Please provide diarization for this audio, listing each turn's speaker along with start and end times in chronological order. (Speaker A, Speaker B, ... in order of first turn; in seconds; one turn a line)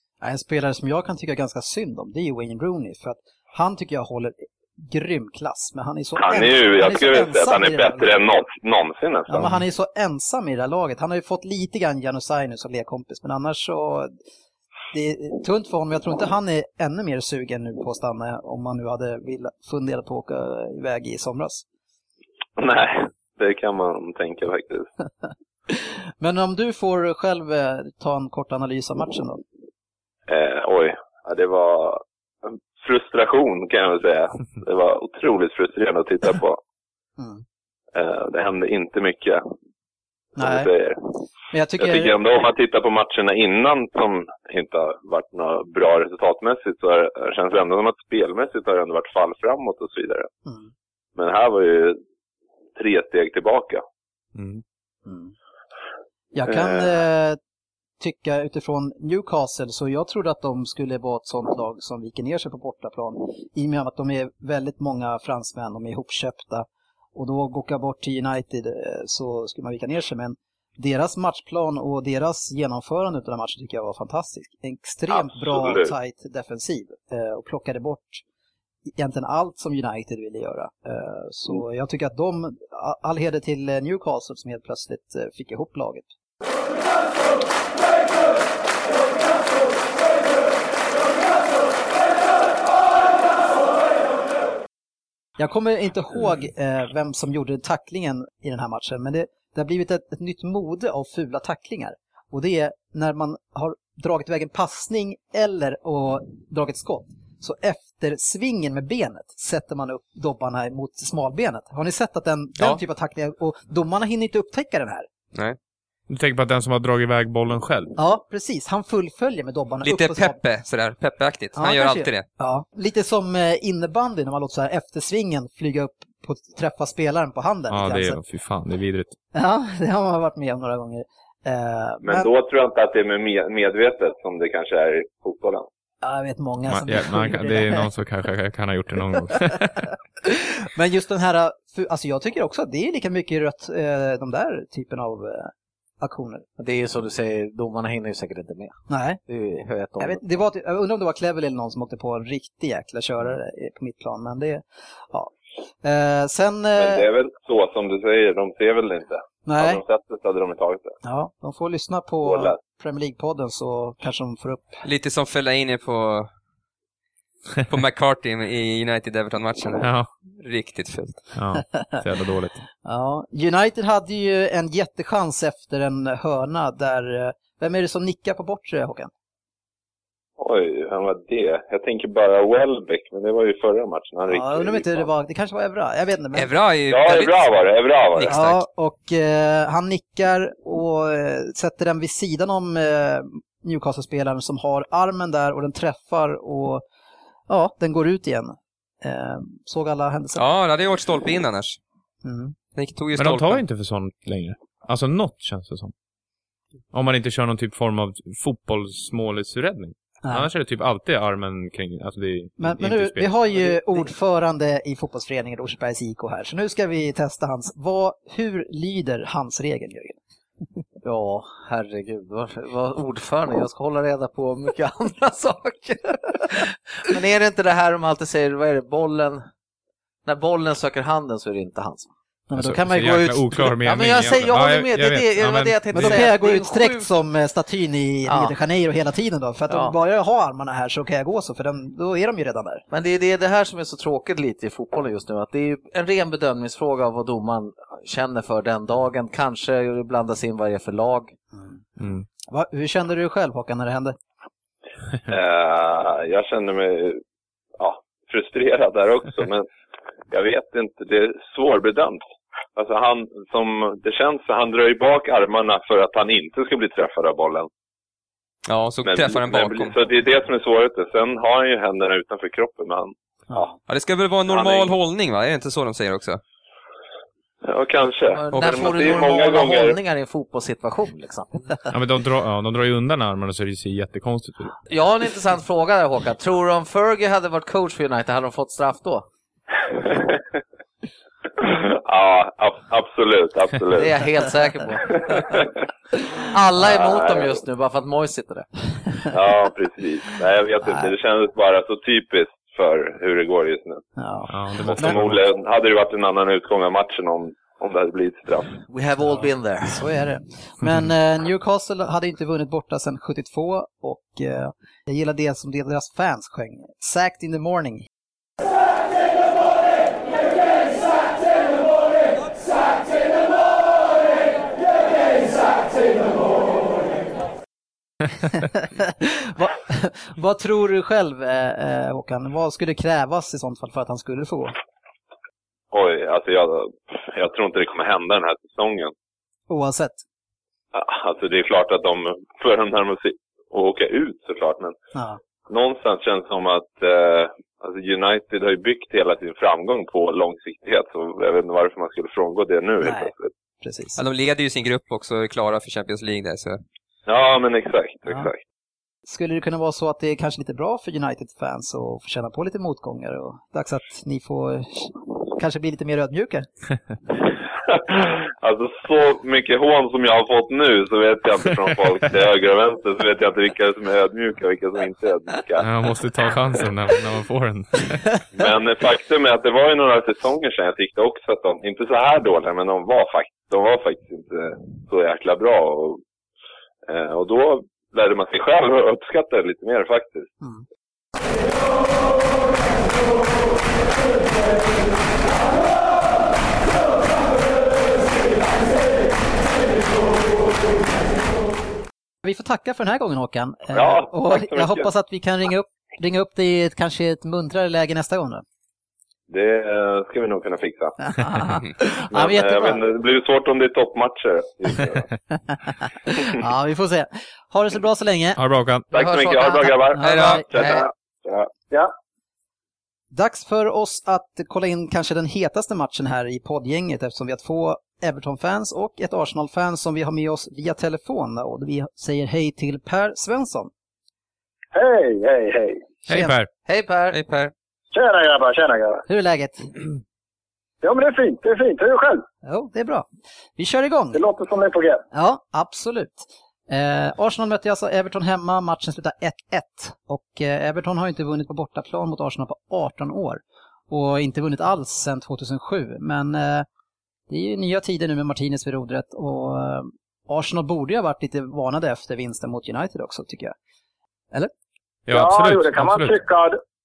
Speaker A: 0.2-8.3
Speaker B: 6.2-9.5
Speaker A: 9.3-14.1
Speaker A: 14.9-21.6
Speaker B: 22.6-24.9
Speaker A: 25.7-29.4
Speaker B: 30.3-36.6
Speaker A: 37.2-37.4
Speaker B: 37.9-39.4
Speaker A: 40.4-40.7
Speaker B: 40.4-41.0
Speaker A: 41.5-42.2
Speaker B: 41.8-50.3
Speaker B: 51.1-52.0
Speaker B: 52.8-53.8
Speaker C: 54.4-54.6
Speaker A: 55.1-55.3
Speaker A: 56.3-57.4
Speaker B: 56.5-56.9
Speaker A: 58.0-78.2
Speaker B: 75.1-75.9
Speaker A: 79.0-86.1
Speaker A: 95.4-115.1
Speaker C: 116.1-117.9
Speaker A: 118.0-120.4
Speaker D: 119.8-122.3
Speaker A: 121.6-128.2
Speaker C: 127.7-129.1
Speaker A: 129.3-132.3
Speaker B: 132.0-135.7
Speaker A: 136.0-137.9
Speaker C: 136.7-139.9
Speaker A: 140.3-146.4
Speaker E: 146.6-150.4
Speaker A: 148.9-149.2
Speaker A: 150.0-155.3
Speaker A: 155.8-157.1
Speaker B: 156.8-160.9
Speaker A: 159.4-159.8
Speaker A: 161.0-164.8
Speaker B: 162.2-162.6
Speaker D: 164.8-166.3
Speaker D: 167.7-171.3
Speaker C: 169.8-170.1
Speaker C: 171.3-172.6
Speaker A: 171.6-172.0
Speaker A: 172.8-179.1
Speaker B: 180.4-185.1
Speaker A: 184.3-186.5
Speaker D: 186.3-187.5
Speaker B: 186.9-188.3
Speaker D: 188.1-188.6
Speaker A: 188.3-196.8
Speaker A: 197.5-200.4
Speaker D: 200.4-201.8
Speaker A: 202.2-202.6
Speaker D: 202.7-203.6
Speaker C: 203.2-205.9
Speaker C: 206.9-213.7
Speaker A: 212.6-220.2
Speaker E: 221.0-229.4
Speaker E: 230.2-232.1
Speaker A: 232.5-233.7
Speaker C: 232.6-236.3
Speaker E: 233.8-237.1
Speaker A: 235.9-242.8
Speaker E: 238.3-238.6
Speaker E: 239.7-239.9
Speaker E: 242.9-251.3
Speaker C: 252.0-252.3
Speaker A: 252.5-254.2
Speaker B: 255.3-257.2
Speaker B: 257.8-259.7
Speaker B: 260.3-262.2
Speaker B: 262.8-267.7
Speaker D: 268.7-269.9
Speaker B: 269.1-273.8
Speaker D: 273.9-276.4
Speaker B: 274.5-274.9
Speaker B: 277.6-279.9
Speaker E: 278.3-281.7
Speaker D: 278.5-278.9
Speaker C: 281.9-284.8
Speaker E: 284.9-289.2
Speaker B: 290.1-290.4
Speaker B: 291.6-294.1
Speaker E: 293.9-295.1
Speaker B: 295.3-295.6
Speaker E: 296.5-298.7
Speaker B: 296.8-297.6
Speaker B: 299.3-304.1
Speaker A: 304.2-305.2
Speaker C: 304.5-305.4
Speaker B: 304.8-308.8
Speaker E: 308.8-310.0
Speaker A: 309.2-318.1
Speaker A: 328.5-334.8
Speaker B: 335.9-339.1
Speaker A: 339.7-340.2
Speaker B: 340.9-344.9
Speaker A: 345.1-345.4
Speaker B: 345.7-353.5
Speaker A: 353.0-353.3
Speaker A: 353.8-354.2
Speaker D: 354.2-356.8
Speaker B: 357.3-358.6
Speaker A: 359.3-366.7
Speaker B: 367.9-376.1
Speaker C: 375.8-378.4
Speaker B: 378.6-386.2
Speaker B: 387.1-390.5
Speaker A: 402.4-408.6
Speaker B: 403.9-405.1
Speaker B: 409.5-411.3
Speaker A: 411.2-413.0
Speaker B: 412.3-415.3
Speaker A: 416.3-418.6
Speaker C: 418.6-419.1
Speaker E: 419.1-420.0
Speaker B: 419.1-421.7
Speaker A: 420.1-420.7
Speaker D: 420.2-420.9
Speaker E: 420.8-421.1
Speaker A: 423.3-433.9
Speaker F: 434.9-436.1
Speaker A: 436.3-436.6
Speaker C: 436.3-436.7
Speaker E: 436.9-437.4
Speaker D: 437.3-437.7
Speaker F: 438.1-439.2
Speaker A: 439.3-440.0
Speaker F: 441.0-442.4
Speaker A: 442.6-444.4
Speaker F: 444.3-445.2
Speaker A: 445.3-456.9
Speaker A: 457.5-463.7
Speaker C: 465.3-466.4
Speaker F: 465.3-466.8